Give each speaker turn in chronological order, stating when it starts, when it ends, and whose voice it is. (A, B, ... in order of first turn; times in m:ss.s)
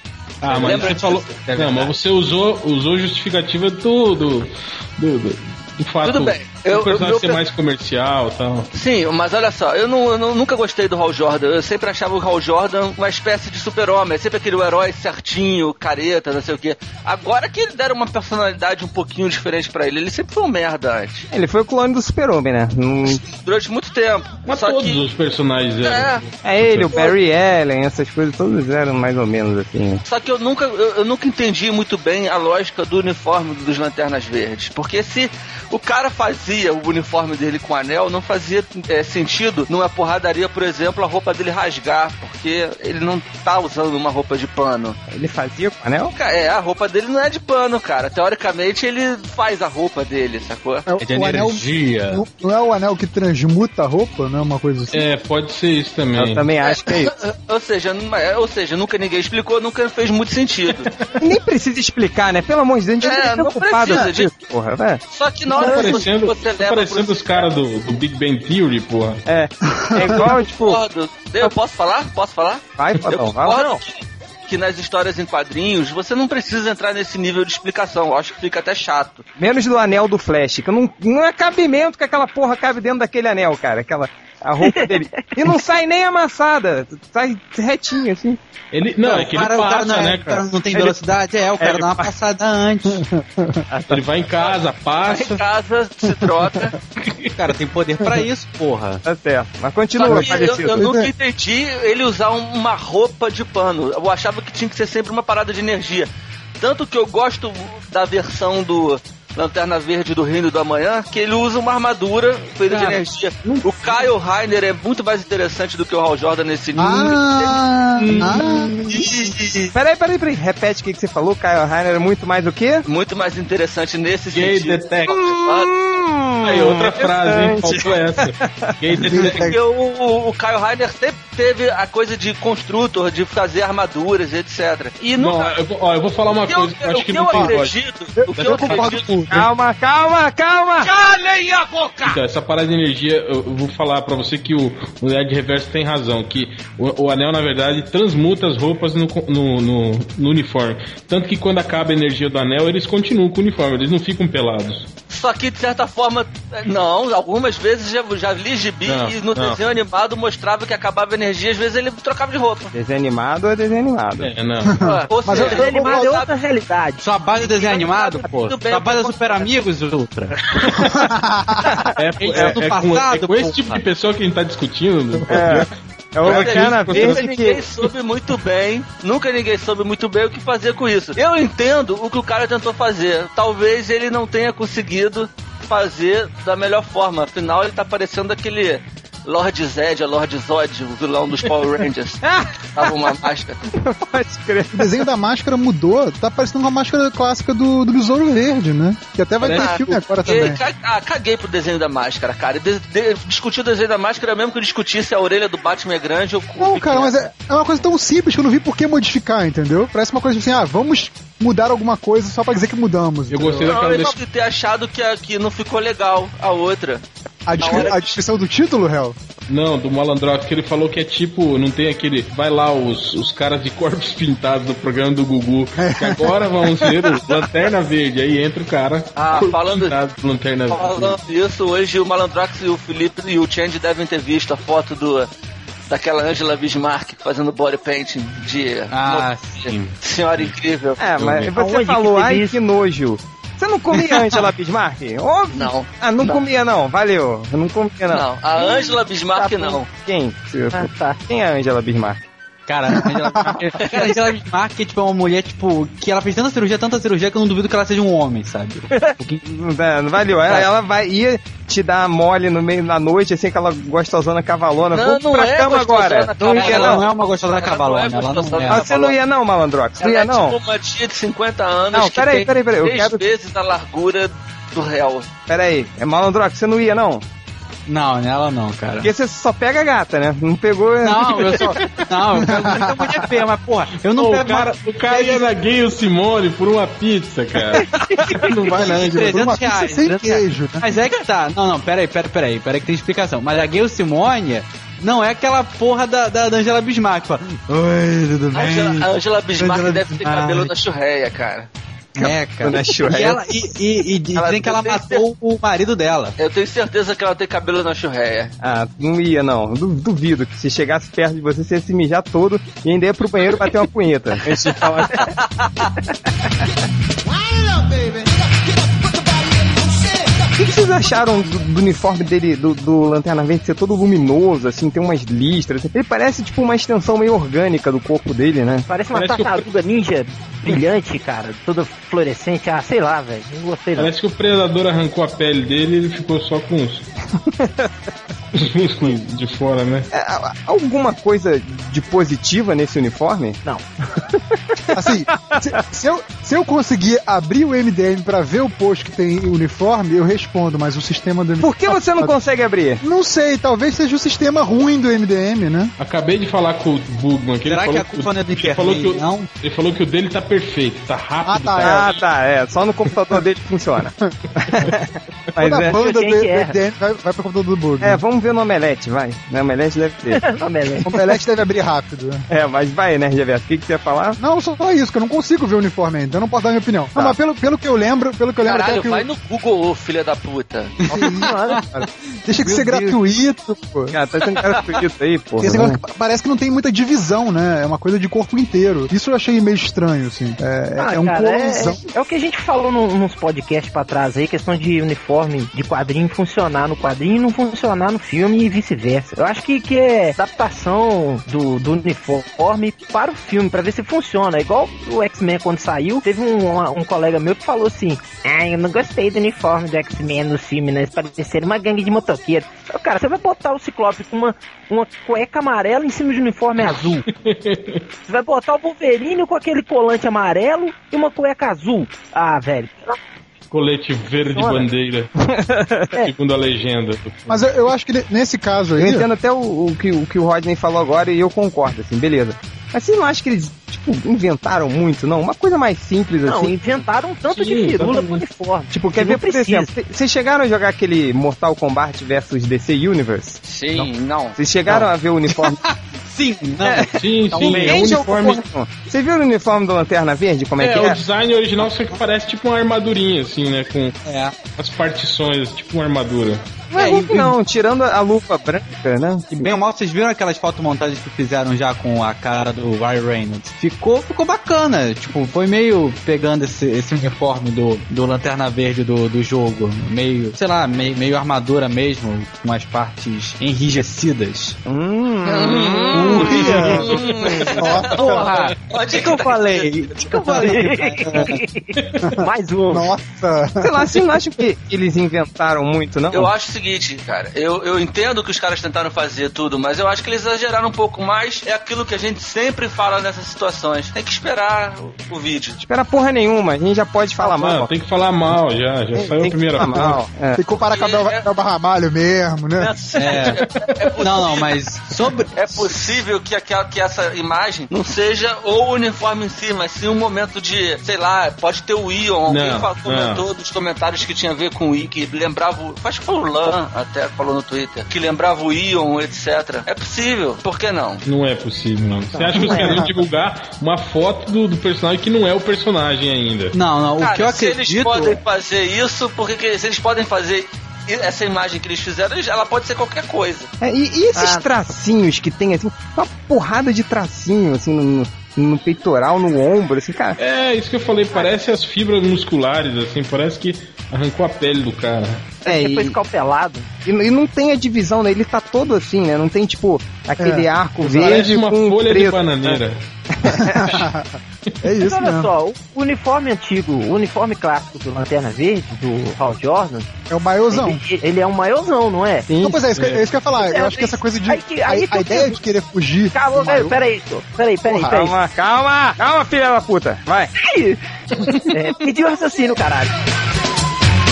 0:00.4-0:01.9 A
0:00.4-0:08.7 B
0:00.6-0:01.2 C
0:06.0-0:07.4 C
0:08.7-0:21.3 C
0:21.3-0:23.2 D
0:23.1-0:25.0 C
0:24.5-0:26.9 B
0:25.8-0:26.2 C
0:26.4-0:30.0 D
0:30.1-0:45.0 C
0:45.1-0:46.1 D
0:46.1-0:50.8 C
0:50.9-0:55.0 E
0:51.0-0:52.2 A
0:54.9-0:56.5 B
0:56.2-0:57.1 D
0:56.6-1:00.9 C
1:01.2-1:05.0 D
1:03.0-1:04.3 C
1:05.1-1:07.5 C
1:05.5-1:09.2 B
1:05.6-1:06.0 E
1:09.2-1:10.8 D
1:09.8-1:10.1 E
1:10.1-1:12.6 C
1:12.8-1:13.8 D
1:13.4-1:19.2 C
1:19.4-1:28.4 D
1:28.7-1:30.4 B
1:29.0-1:33.0 A
1:31.6-1:32.1 D
1:33.0-1:33.6 E
1:33.7-1:34.0 D
1:33.9-1:35.4 B
1:35.0-1:36.7 C
1:37.0-1:37.3 B
1:37.4-1:39.0 A
1:39.0-1:40.8 D
1:39.9-1:57.6 C
1:40.2-1:41.1 E
1:56.8-1:59.3 E
1:58.0-1:58.7 B
1:58.2-1:59.7 C
1:59.7-2:02.8 D
2:02.8-2:05.7 C
2:04.3-2:05.2 B
2:05.1-2:09.3 D
2:06.4-2:09.5 B
2:09.1-2:09.5 E
2:09.3-2:15.6 C
2:15.2-2:17.7 B
2:16.4-2:19.2 C
2:17.3-2:17.6 E
2:18.2-2:19.5 E
2:18.3-2:19.2 B
2:19.3-2:20.9 D
2:20.8-2:22.2 C
2:22.0-2:34.9 B
2:35.1-2:42.7 C
2:38.8-2:39.6 B
2:42.7-2:44.3 D
2:44.2-2:44.8 B
2:44.6-2:46.1 E
2:44.8-2:46.3 C
2:45.2-2:45.6 A
2:45.4-2:47.0 F
2:47.0-2:50.4 A
2:47.4-2:49.5 C
2:50.6-2:50.9 B
2:50.8-2:51.8 E
2:51.7-2:52.6 D
2:52.0-2:55.7 B
2:52.2-2:53.8 A
2:55.3-2:57.6 D
2:55.3-2:55.6 E
2:56.2-2:57.2 B
2:56.2-3:12.2 C
3:12.2-3:15.1 D
3:12.7-3:13.7 C
3:14.7-3:20.6 E
3:19.4-3:27.2 C
3:26.6-3:33.8 E
3:33.3-3:34.2 B
3:33.6-3:37.0 C
3:37.4-3:39.2 E
3:37.6-3:38.2 C
3:39.5-3:51.2 B
3:45.8-3:47.1 E
3:49.2-3:49.9 C
3:50.7-3:55.3 C
3:55.9-4:01.0 C
3:58.9-4:00.0 A
4:01.0-4:08.2 D
4:01.2-4:01.5 B
4:01.6-4:02.6 F
4:05.5-4:06.4 C
4:08.1-4:09.8 C
4:08.6-4:09.8 F
4:09.9-4:12.3 D
4:10.7-4:11.2 F
4:12.7-4:19.4 A
4:13.0-4:13.5 E
4:13.0-4:14.2 C
4:19.4-4:27.0 D
4:24.9-4:29.2 C
4:26.4-4:28.9 A
4:28.6-4:30.6 D
4:30.0-4:35.3 C
4:31.9-4:33.2 D
4:35.5-4:37.2 D
4:37.9-4:39.1 A
4:39.0-4:41.8 D
4:41.0-4:45.5 A
4:42.4-4:43.2 E
4:42.7-4:43.1 D
4:44.1-4:49.4 B
4:48.5-4:50.9 E
4:48.7-5:00.7 A
4:58.5-5:01.7 C
5:02.2-5:03.4 D
5:02.2-5:06.4 A
5:04.3-5:05.2 C
5:06.4-5:08.5 C
5:08.6-5:15.3 D
5:15.4-5:15.7 C
5:20.6-5:28.9 D
5:28.9-5:34.1 F
5:29.1-5:29.6 B
5:34.0-5:37.0 B
5:37.5-5:37.9 D
5:38.5-5:40.1 B
5:40.1-5:43.6 D
5:44.9-5:45.7 D
5:44.9-5:52.3 E
5:51.6-5:53.0 D
5:53.0-5:55.9 E
5:56.0-6:02.2 B
5:57.6-5:59.5 A
6:01.4-6:02.2 E
6:01.8-6:06.0 D
6:05.6-6:08.2 E
6:05.9-6:06.8 F
6:08.0-6:10.4 D
6:10.3-6:11.3 F
6:11.0-6:12.4 E
6:12.5-6:14.4 D
6:14.4-6:19.2 E
6:18.6-6:21.0 C
6:21.1-6:21.8 E
6:21.1-6:22.1 D
6:21.4-6:21.8 F
6:22.4-6:24.1 E
6:22.6-6:23.2 D
6:24.1-6:26.0 D
6:25.6-6:32.0 E
6:31.0-6:57.3 F
6:56.8-6:58.0 B
6:58.3-7:03.2 F
7:03.7-7:05.3 B
7:04.5-7:04.8 F
7:05.4-7:06.1 D
7:06.2-7:07.6 B
7:07.5-7:09.3 E
7:09.0-7:17.0 D
7:16.4-7:19.9 F
7:17.5-7:18.4 B
7:18.9-7:23.6 D
7:23.6-7:24.5 C
7:24.6-7:25.8 D
7:24.8-7:28.1 A
7:26.8-7:31.2 D
7:27.2-7:28.6 B
7:30.8-7:34.1 B
7:34.2-7:34.6 A
7:34.8-7:36.6 B
7:36.9-7:39.7 D
7:37.0-7:37.5 A
7:39.5-7:54.8 A
7:54.8-7:57.7 D
7:55.4-8:00.5 C
7:56.2-7:57.1 E
7:56.4-7:56.9 A
7:57.8-7:58.4 E
7:58.1-8:01.5 A
8:00.5-8:03.1 F
8:02.9-8:04.1 E
8:03.8-8:06.5 D
8:06.3-8:15.8 C
8:15.8-8:17.9 D
8:17.4-8:20.2 B
8:19.2-8:20.6 D
8:20.6-8:22.9 E
8:20.8-8:21.5 C
8:22.8-8:24.8 C
8:23.2-8:23.6 A
8:24.2-8:25.9 A
8:25.5-8:41.2 C
8:32.5-8:33.4 B
8:41.2-8:46.8 B
8:42.3-8:43.0 F
8:42.7-8:43.2 E
8:46.7-8:48.4 A
8:47.2-8:53.7 C
8:53.8-9:00.4 D
8:54.4-8:54.6 F
9:00.4-9:05.5 B
9:05.6-9:06.2 D
9:05.6-9:06.9 F
9:07.0-9:12.8 D
9:10.4-9:10.7 E
9:11.1-9:13.0 B
9:13.3-9:14.0 D
9:13.7-9:15.5 E
9:15.0-9:20.1 F
9:20.3-9:21.0 E
9:20.7-9:22.5 F
9:22.5-9:22.9 D
9:22.6-9:27.0 E
9:22.9-9:23.2 B
9:23.6-9:25.6 F
9:26.3-9:28.3 F
9:28.0-9:30.5 D
9:30.6-9:31.0 F
9:31.6-9:33.1 F